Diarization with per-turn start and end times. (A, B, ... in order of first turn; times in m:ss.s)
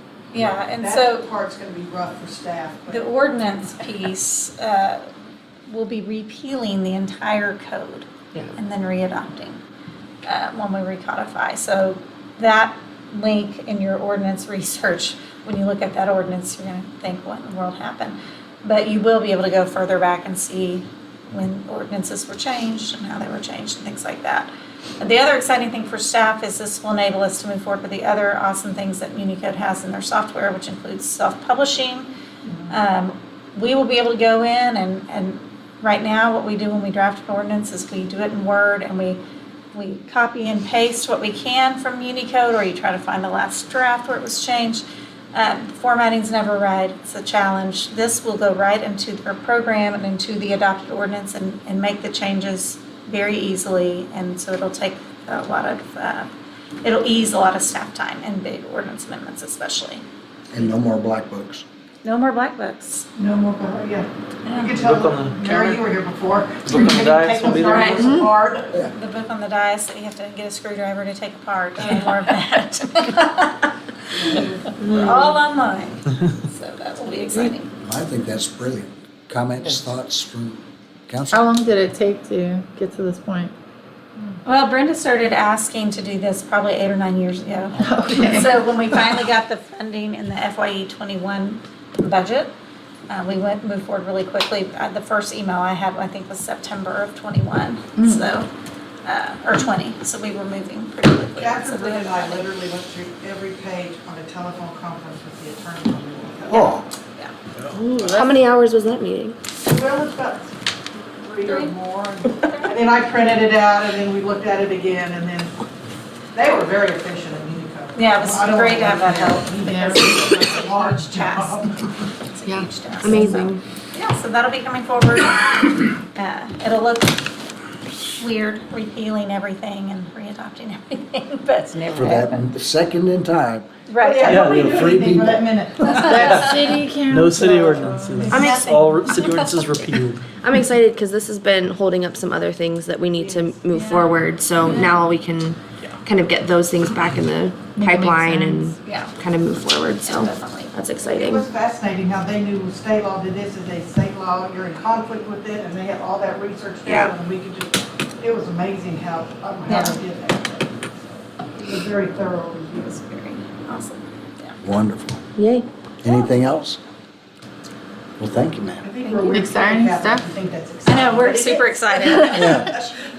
0:00.3-0:01.3 A
0:00.8-0:03.1 B
0:02.9-0:05.0 A
0:05.7-0:09.6 A
0:10.2-0:32.1 A
0:32.4-0:32.8 B
0:32.7-0:39.2 A
0:39.7-0:56.3 A
0:56.8-1:00.0 A
1:00.5-1:01.6 C
1:02.0-1:03.1 A
1:03.2-1:08.8 B
1:04.4-1:04.7 A
1:04.8-1:05.8 D
1:06.7-1:08.0 D
1:07.6-1:13.8 A
1:08.0-1:08.3 E
1:14.1-1:15.3 B
1:14.3-1:17.7 A
1:17.8-1:21.5 C
1:21.3-1:23.5 E
1:24.4-1:32.5 A
1:27.8-1:29.2 E
1:33.1-1:38.5 A
1:38.0-1:38.3 E
1:39.0-1:42.5 A
1:41.4-1:46.8 B
1:46.5-1:47.3 A
1:47.6-1:48.2 D
1:47.7-1:49.4 F
1:49.6-1:50.5 B
1:51.2-1:55.5 B
1:51.4-1:51.7 A
1:56.3-2:01.8 B
1:57.9-2:07.3 A
1:59.6-2:00.0 E
2:02.4-2:03.2 E
2:03.0-2:03.6 F
2:08.0-2:12.4 A
2:11.9-2:13.7 C
2:13.9-2:14.4 A
2:14.0-2:16.4 B
2:14.2-2:14.8 D
2:14.3-2:15.4 C
2:15.9-2:20.3 D
2:15.9-2:16.5 A
2:16.0-2:18.4 E
2:18.2-2:19.9 A
2:18.3-2:18.7 F
2:20.3-2:31.4 F
2:23.1-2:23.6 B
2:23.7-2:24.9 A
2:27.7-2:28.7 E
2:28.8-2:29.2 A
2:30.0-2:30.8 A
2:31.0-2:42.9 B
2:36.8-2:37.1 F
2:39.7-2:40.0 A
2:42.8-2:44.6 A
2:44.6-2:45.2 C
2:45.4-2:45.7 F
2:46.0-2:46.8 C
2:48.2-2:48.8 C
2:48.8-2:52.7 B
2:49.0-2:49.4 A
2:49.3-2:50.3 E
2:50.8-2:53.1 A
2:52.3-2:52.8 C